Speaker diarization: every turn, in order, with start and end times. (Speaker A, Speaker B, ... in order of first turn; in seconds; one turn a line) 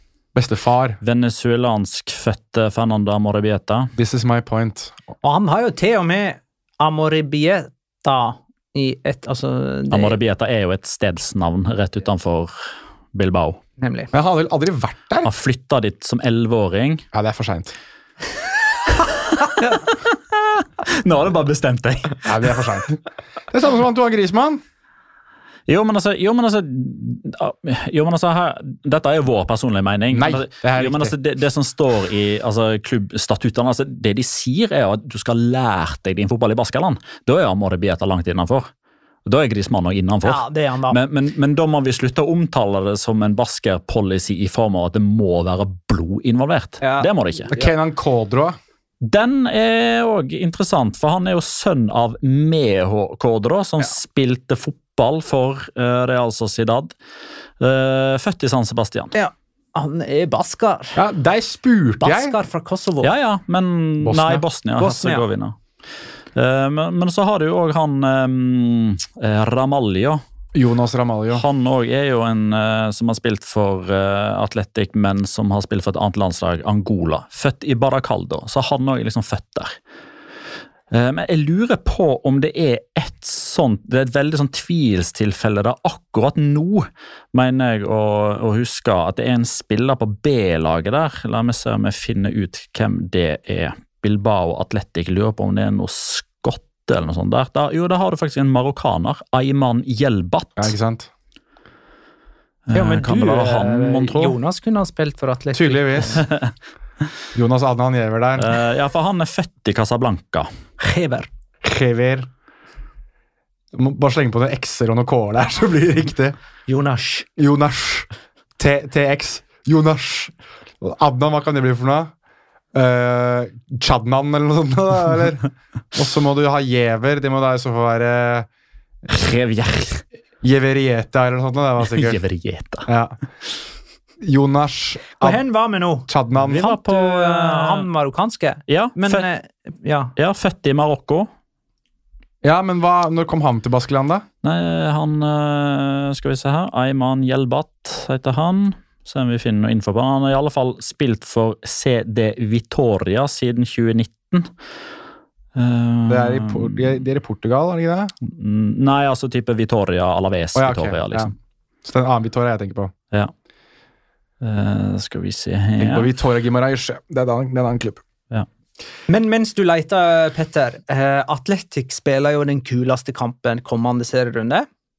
Speaker A: 0.3-1.0
Speaker B: 1.0-3.9
Speaker A: 4.0-5.0
Speaker C: 5.2-10.2
Speaker B: 9.9-12.5
Speaker B: 13.1-13.6
Speaker C: 13.8-14.1
Speaker A: 14.1-15.3
Speaker B: 15.2-17.0
Speaker A: 17.1-17.7
Speaker B: 19.0-22.6
Speaker A: 22.2-24.6
Speaker B: 25.7-38.7
Speaker A: 30.1-31.1
Speaker B: 39.2-47.5
Speaker C: 40.2-41.0
Speaker C: 46.8-47.7
Speaker A: 47.5-48.5
Speaker B: 49.0-56.9
Speaker B: 57.6-59.1
Speaker C: 59.1-61.0
Speaker A: 61.0-62.4
Speaker C: 62.0-63.1
Speaker B: 63.0-65.5
Speaker A: 64.0-64.4
Speaker C: 64.8-65.2
Speaker B: 66.3-70.2
Speaker A: 70.5-71.4
Speaker B: 71.3-79.8
Speaker B: 80.9-100.7
Speaker A: 100.6-101.1
Speaker B: 102.7-104.3
Speaker C: 102.7-106.2
Speaker A: 105.5-106.2
Speaker B: 106.2-106.5
Speaker A: 107.3-108.6
Speaker B: 108.4-110.5
Speaker C: 110.8-111.3
Speaker A: 111.6-112.3
Speaker A: 113.7-116.3
Speaker C: 116.7-117.3
Speaker A: 117.4-118.1
Speaker A: 118.6-122.1
Speaker A: 122.7-128.5
Speaker B: 129.1-130.0
Speaker A: 130.4-132.2
Speaker B: 131.8-132.9
Speaker A: 132.9-133.2
Speaker A: 134.2-135.4
Speaker C: 135.2-140.1
Speaker A: 136.1-136.7
Speaker B: 136.4-137.8
Speaker B: 138.7-139.2
Speaker B: 140.2-141.3
Speaker A: 142.4-144.2
Speaker B: 144.4-154.5
Speaker B: 155.5-156.9
Speaker A: 156.1-158.1
Speaker B: 158.2-161.3
Speaker A: 160.5-161.3
Speaker A: 161.8-162.9
Speaker B: 164.4-166.1
Speaker A: 165.8-168.0
Speaker C: 169.1-174.7